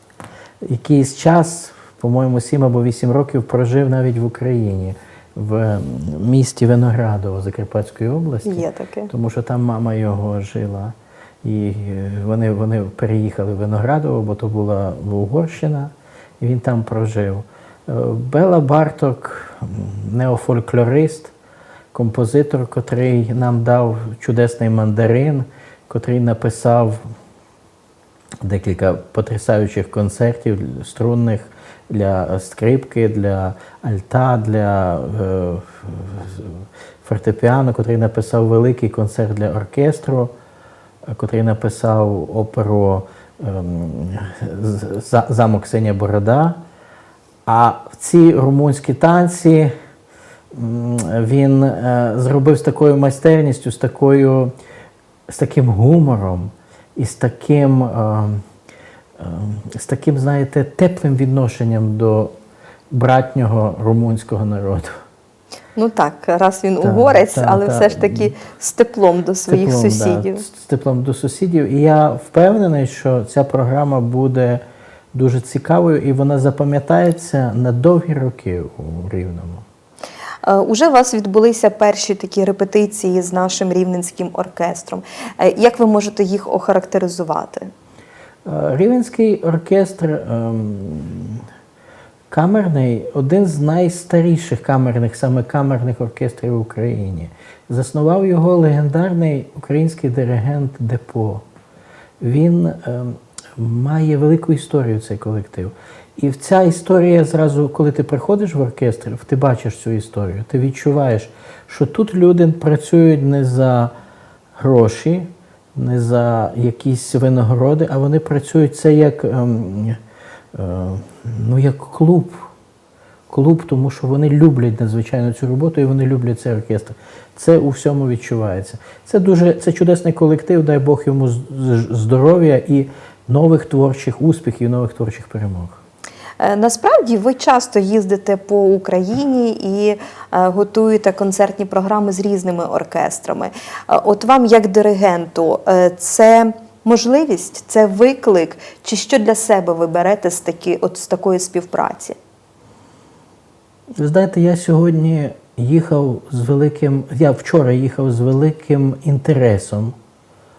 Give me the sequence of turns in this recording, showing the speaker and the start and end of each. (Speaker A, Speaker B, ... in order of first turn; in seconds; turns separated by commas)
Speaker A: 0.6-21.3, Speaker B: 8.5-9.1, Speaker A: 21.9-27.0, Speaker A: 28.4-40.3, Speaker A: 41.1-46.6, Speaker A: 47.5-49.7, Speaker A: 50.5-54.5, Speaker A: 55.3-58.4, Speaker A: 59.2-62.3, Speaker A: 62.9-64.9, Speaker B: 65.8-70.4, Speaker A: 66.8-68.3, Speaker A: 69.5-74.6, Speaker A: 75.1-79.7, Speaker B: 80.5-87.7, Speaker A: 88.5-91.5, Speaker A: 92.3-101.4, Speaker A: 102.2-113.9, Speaker A: 114.6-120.0, Speaker A: 120.5-122.4, Speaker A: 123.3-135.8, Speaker B: 136.4-152.2, Speaker A: 154.0-159.9